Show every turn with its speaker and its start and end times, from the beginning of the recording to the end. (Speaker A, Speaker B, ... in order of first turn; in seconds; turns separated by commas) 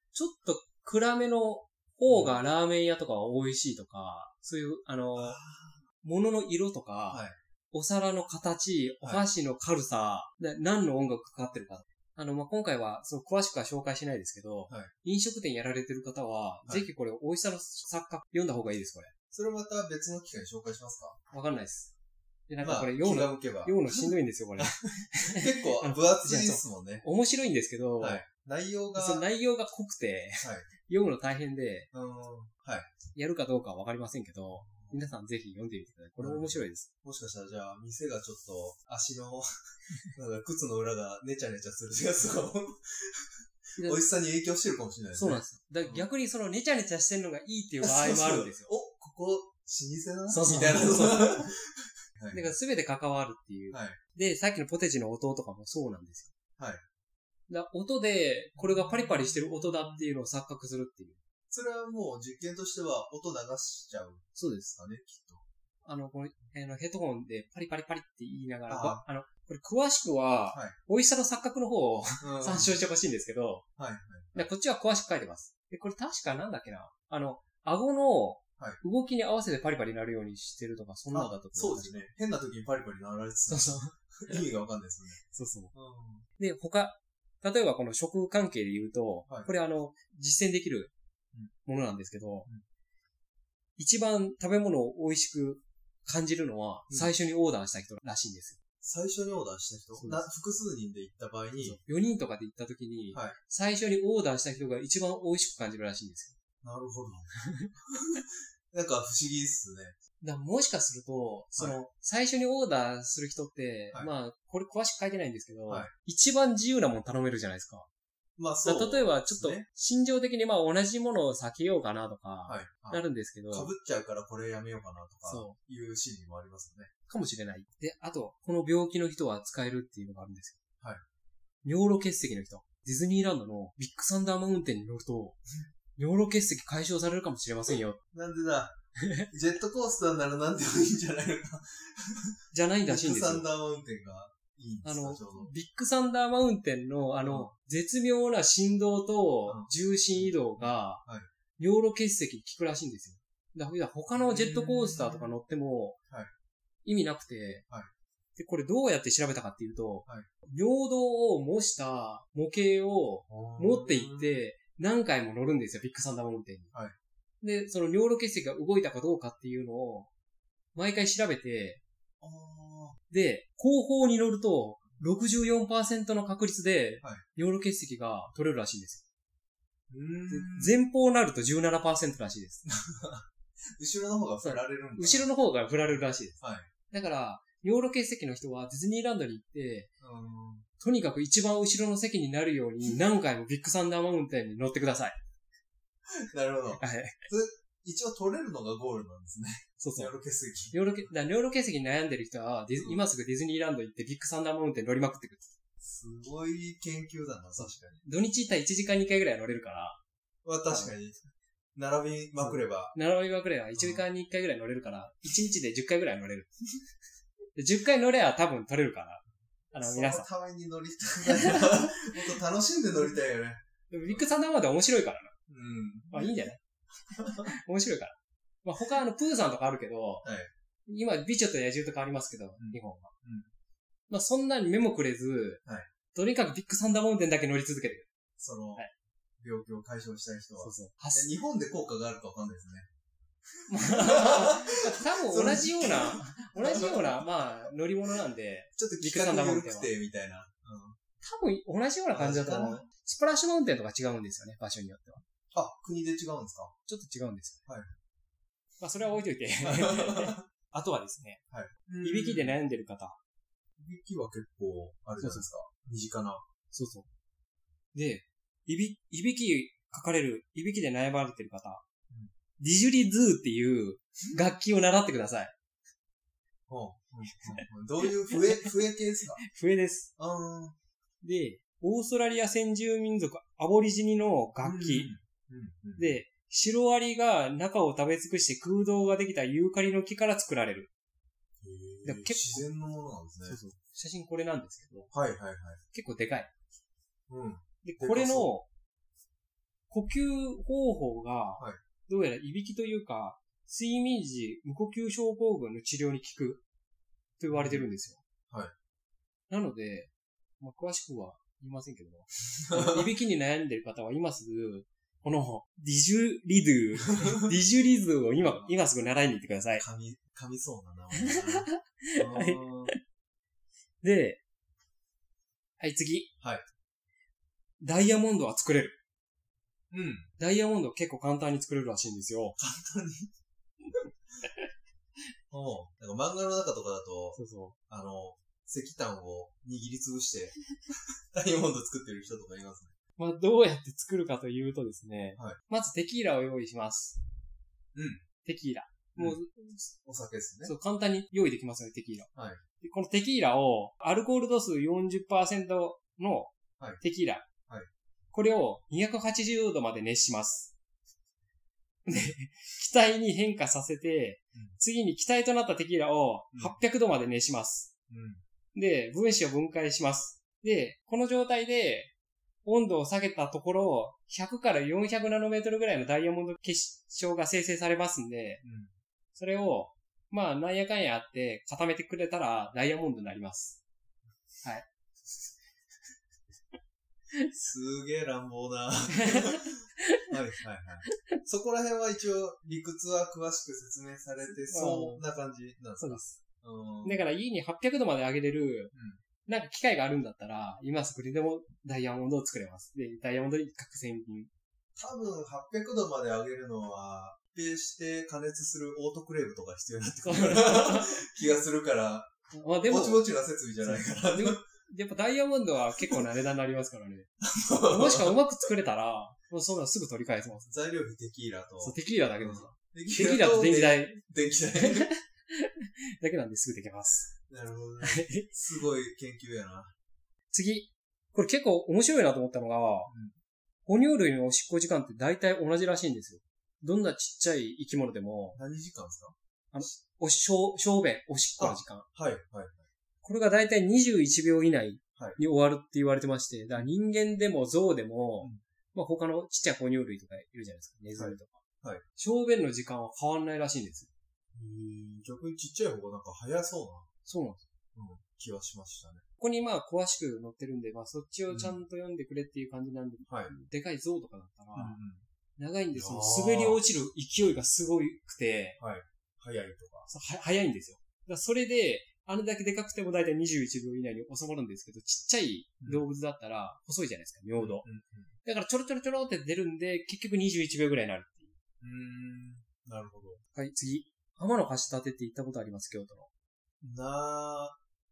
Speaker A: 0.1-5.4, Speaker B: 2.1-2.4, Speaker B: 5.2-5.8, Speaker A: 6.0-19.1, Speaker B: 7.1-7.3, Speaker B: 19.3-21.2, Speaker A: 21.3-21.9, Speaker A: 22.5-28.2, Speaker B: 22.6-27.1, Speaker B: 28.0-29.3, Speaker A: 28.9-31.9, Speaker B: 30.4-30.7, Speaker B: 31.9-32.9, Speaker A: 33.1-36.9, Speaker B: 34.5-35.0, Speaker B: 36.2-39.5, Speaker B: 40.1-46.1, Speaker A: 43.8-44.0, Speaker A: 45.1-48.7, Speaker B: 47.8-51.6, Speaker A: 50.3-51.5, Speaker B: 52.2-52.6, Speaker A: 52.3-56.3, Speaker B: 53.7-54.0, Speaker A: 57.5-61.2, Speaker B: 58.6-60.1, Speaker B: 61.5-65.4, Speaker A: 64.3-64.7, Speaker A: 65.8-73.7, Speaker B: 68.7-69.0, Speaker B: 70.5-70.8, Speaker B: 72.2-72.8, Speaker B: 73.8-74.5, Speaker A: 74.3-82.0, Speaker B: 81.1-86.3, Speaker A: 83.5-84.4, Speaker A: 85.3-85.7, Speaker A: 86.4-90.9, Speaker A: 91.7-92.5, Speaker A: 93.8-98.6, Speaker B: 96.9-97.1, Speaker B: 98.8-101.8, Speaker A: 100.0-100.2, Speaker A: 101.6-106.3, Speaker B: 106.6-110.0, Speaker A: 110.2-117.9, Speaker B: 118.4-119.7, Speaker A: 118.6-123.7, Speaker B: 122.5-126.9, Speaker A: 125.2-125.6, Speaker A: 127.1-130.6, Speaker A: 131.6-135.4, Speaker A: 136.0-138.0, Speaker B: 138.1-138.8, Speaker B: 139.3-145.5, Speaker A: 142.5-143.5, Speaker A: 144.8-151.0, Speaker B: 147.2-147.5, Speaker B: 149.5-151.3, Speaker A: 151.6-156.0, Speaker B: 154.1-155.3, Speaker A: 156.8-157.7, Speaker A: 158.4-166.7, Speaker B: 163.3-164.4, Speaker A: 167.4-170.1, Speaker A: 170.8-171.8, Speaker B: 172.2-173.0, Speaker A: 173.1-179.0, Speaker B: 179.9-180.8, Speaker A: 180.3-182.6, Speaker B: 182.7-183.3, Speaker B: 183.8-185.3, Speaker A: 184.4-186.4, Speaker B: 186.4-186.7, Speaker A: 186.9-189.9, Speaker B: 190.0-190.7, Speaker A: 190.8-195.2, Speaker B: 196.1-201.1, Speaker A: 196.8-197.2, Speaker A: 199.8-200.2, Speaker A: 200.7-205.5, Speaker B: 205.8-208.0, Speaker A: 207.5-210.0, Speaker B: 210.4-211.2, Speaker A: 210.7-210.9, Speaker B: 211.8-212.9, Speaker A: 212.4-216.5, Speaker B: 213.7-214.1, Speaker A: 217.6-220.3, Speaker B: 219.8-224.3, Speaker A: 221.3-222.2, Speaker A: 223.9-225.3, Speaker B: 225.5-226.5, Speaker A: 226.1-226.6, Speaker B: 227.2-227.5, Speaker A: 227.3-230.2, Speaker B: 230.2-230.5, Speaker A: 230.9-233.1, Speaker B: 232.6-233.5, Speaker A: 234.1-235.6, Speaker A: 236.1-238.1, Speaker B: 238.4-238.8, Speaker B: 239.4-242.9, Speaker A: 240.6-241.3, Speaker A: 243.7-249.9, Speaker B: 243.7-251.0, Speaker A: 251.2-255.2, Speaker B: 252.1-252.9, Speaker B: 255.5-256.7, Speaker A: 256.9-257.6, Speaker B: 257.7-257.9, Speaker A: 258.8-261.4, Speaker B: 259.6-260.4, Speaker B: 261.5-262.6, Speaker A: 262.0-263.2, Speaker B: 263.8-266.4, Speaker A: 265.2-265.5, Speaker A: 266.7-267.1, Speaker A: 267.9-271.8, Speaker A: 272.6-275.5, Speaker B: 276.7-279.4, Speaker A: 277.3-277.6, Speaker A: 278.3-278.7, Speaker A: 279.4-280.1, Speaker B: 280.2-280.8, Speaker A: 281.2-285.1, Speaker B: 284.6-286.2, Speaker A: 286.0-290.9, Speaker B: 291.6-293.6, Speaker A: 292.0-292.7, Speaker A: 293.4-295.1, Speaker B: 295.1-295.8, Speaker A: 295.9-296.5, Speaker B: 297.3-298.5, Speaker A: 297.8-298.7, Speaker A: 299.9-306.6, Speaker A: 307.4-308.2, Speaker B: 307.5-307.9, Speaker A: 309.5-319.9, Speaker B: 312.7-313.1, Speaker B: 318.4-318.7, Speaker B: 319.8-322.9, Speaker A: 321.2-323.0, Speaker A: 324.0-324.4, Speaker A: 325.8-326.3, Speaker A: 327.8-329.0, Speaker B: 329.9-330.3, Speaker A: 330.4-332.6, Speaker B: 332.6-333.3, Speaker A: 333.9-334.7, Speaker B: 335.5-342.9, Speaker A: 337.4-337.8, Speaker A: 343.2-347.2, Speaker B: 347.9-348.2, Speaker A: 348.4-349.9, Speaker B: 350.0-350.7, Speaker A: 350.6-357.5, Speaker B: 352.3-352.6, Speaker A: 358.3-360.7, Speaker A: 362.1-367.9, Speaker B: 368.1-368.4, Speaker A: 368.7-372.1, Speaker A: 372.6-378.6, Speaker B: 378.6-378.9, Speaker A: 379.4-383.8, Speaker B: 387.5-397.3, Speaker A: 389.3-390.2, Speaker A: 394.4-395.2, Speaker A: 396.0-396.4, Speaker A: 397.0-398.9, Speaker B: 398.9-399.2, Speaker A: 399.5-404.5, Speaker B: 405.0-412.3, Speaker A: 410.2-411.3, Speaker A: 412.5-413.3, Speaker B: 412.9-414.6, Speaker A: 413.8-417.3, Speaker B: 417.4-418.4, Speaker A: 417.8-420.7, Speaker B: 420.6-425.1, Speaker A: 421.8-424.2, Speaker A: 424.8-427.3, Speaker B: 427.5-429.9, Speaker A: 428.0-428.5, Speaker A: 430.5-433.1, Speaker B: 433.1-433.4, Speaker A: 433.9-438.6, Speaker B: 438.6-439.9, Speaker A: 439.7-442.1, Speaker B: 441.6-442.9, Speaker A: 443.2-451.6, Speaker B: 451.1-452.0, Speaker A: 452.2-454.1, Speaker B: 454.5-457.1, Speaker A: 457.2-457.6, Speaker B: 457.9-459.2, Speaker A: 459.4-465.0, Speaker B: 461.5-461.8, Speaker B: 463.3-463.5, Speaker B: 464.8-465.2, Speaker A: 465.6-468.8, Speaker B: 465.9-466.8, Speaker B: 468.8-470.1, Speaker A: 470.1-477.8, Speaker B: 477.6-478.3, Speaker A: 478.4-481.5, Speaker B: 481.8-483.4, Speaker A: 483.5-486.3, Speaker B: 486.8-487.8